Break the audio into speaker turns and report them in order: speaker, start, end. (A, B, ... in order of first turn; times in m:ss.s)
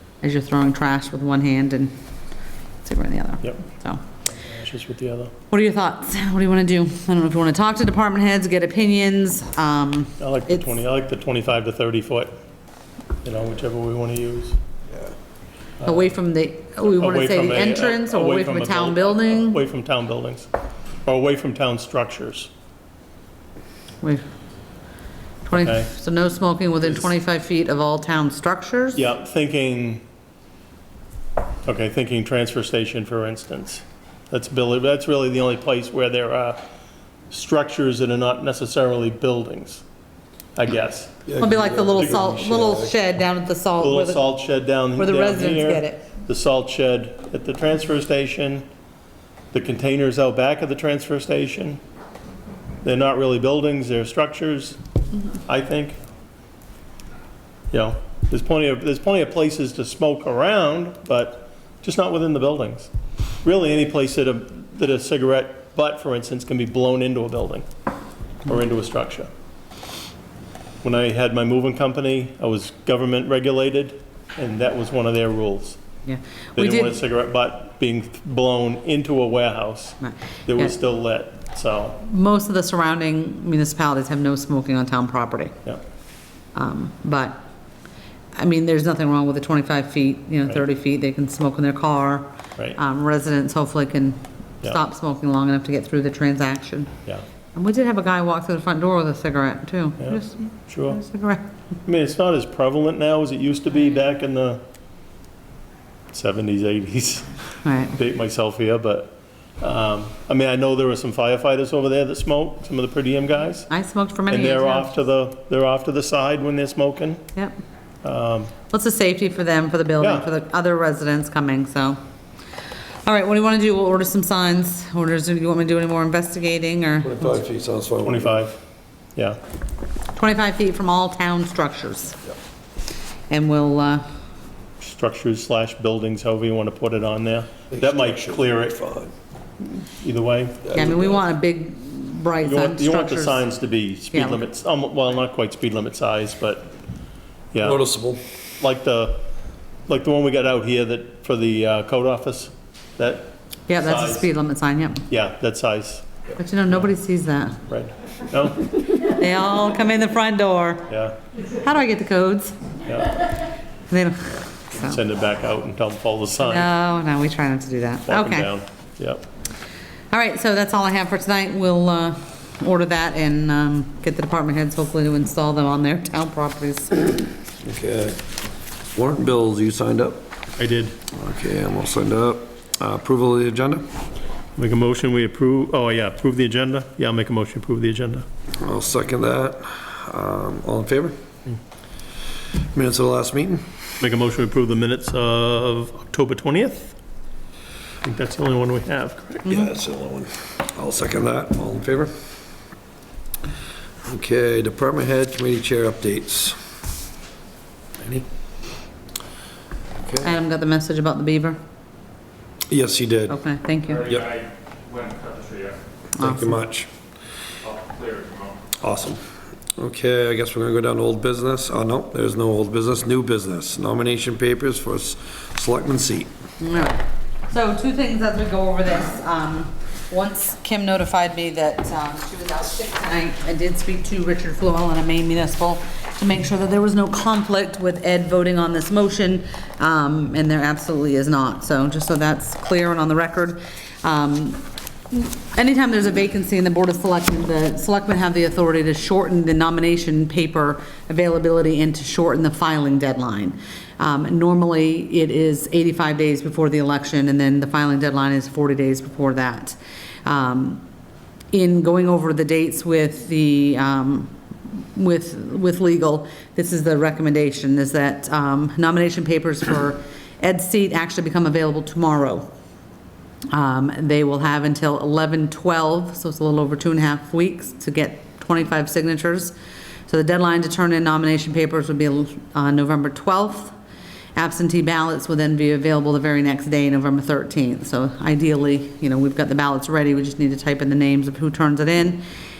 0:00.2-0:01.9 A
0:02.8-0:04.0 A
0:04.4-0:05.3 B
0:05.5-0:10.7 A
0:10.2-0:12.4 B
0:13.2-0:14.6 B
0:15.8-0:16.1 B
0:15.8-0:19.6 A
0:16.9-0:20.5 B
0:21.0-0:22.5 B
0:25.4-0:29.0 A
0:25.5-0:25.9 B
0:28.9-0:30.0 B
0:31.6-0:36.6 B
0:37.3-0:39.8 B
0:40.6-0:41.2 B
0:41.2-0:43.0 C
0:41.4-0:44.2 A
0:43.8-0:48.7 B
0:45.0-0:46.0 A
0:49.5-0:51.8 B
0:52.8-0:54.8 B
0:55.5-0:56.0 B
0:57.7-1:02.9 B
1:03.4-1:07.7 B
1:08.4-1:09.3 B
1:10.8-1:15.8 B
1:16.0-1:17.0 A
1:16.6-1:22.0 B
1:20.0-1:20.8 A
1:22.0-1:25.6 A
1:26.6-1:27.4 A
1:28.3-1:36.9 A
1:37.6-1:41.4 A
1:40.0-1:41.0 B
1:41.9-1:44.6 B
1:46.1-1:47.3 B
1:47.6-1:47.9 A
1:47.9-1:53.7 B
1:53.7-1:54.9 A
1:54.3-1:57.2 B
1:58.0-1:58.5 B
1:58.7-2:02.0 A
2:00.0-2:00.3 B
2:03.0-2:07.3 A
2:07.0-2:08.4 C
2:08.0-2:08.6 B
2:10.2-2:12.2 A
2:13.3-2:14.0 A
2:14.8-2:18.8 B
2:17.7-2:19.1 C
2:20.0-2:20.9 B
2:20.6-2:21.2 C
2:20.7-2:23.5 A
2:22.4-2:26.7 B
2:24.1-2:24.4 A
2:27.5-2:27.8 B
2:27.6-2:28.2 C
2:28.6-2:29.2 B
2:29.9-2:34.3 B
2:33.7-2:35.0 A
2:35.1-2:36.1 B
2:36.4-2:37.6 A
2:37.7-2:38.6 B
2:38.7-2:40.9 A
2:40.9-2:41.2 B
2:41.5-2:42.6 A
2:42.8-2:43.2 B
2:43.9-2:45.0 A
2:44.8-2:46.7 B
2:46.4-2:48.5 A
2:48.1-2:49.2 B
2:50.1-2:57.1 A
2:57.6-2:58.2 C
2:58.9-3:00.2 C
3:00.6-3:01.0 B
3:01.1-3:03.8 C
3:04.6-3:08.2 B
3:08.6-3:11.1 C
3:12.7-3:13.6 C
3:14.0-3:17.0 B
3:18.0-3:19.4 B
3:19.4-3:19.7 A
3:19.5-3:22.1 C
3:24.0-3:26.6 C
3:28.0-3:28.2 C
3:30.0-3:30.3 C
3:30.2-3:31.6 A
3:32.7-3:33.4 C
3:33.3-3:34.1 A
3:34.0-3:35.8 D
3:36.2-3:36.6 A
3:36.2-3:36.9 C
3:37.6-3:38.6 D
3:38.8-3:39.2 C
3:39.8-3:46.3 C
3:46.6-4:20.8 A
4:21.5-4:32.5 A
4:33.5-4:39.5 A
4:40.1-4:43.7 A
4:44.3-4:52.2 A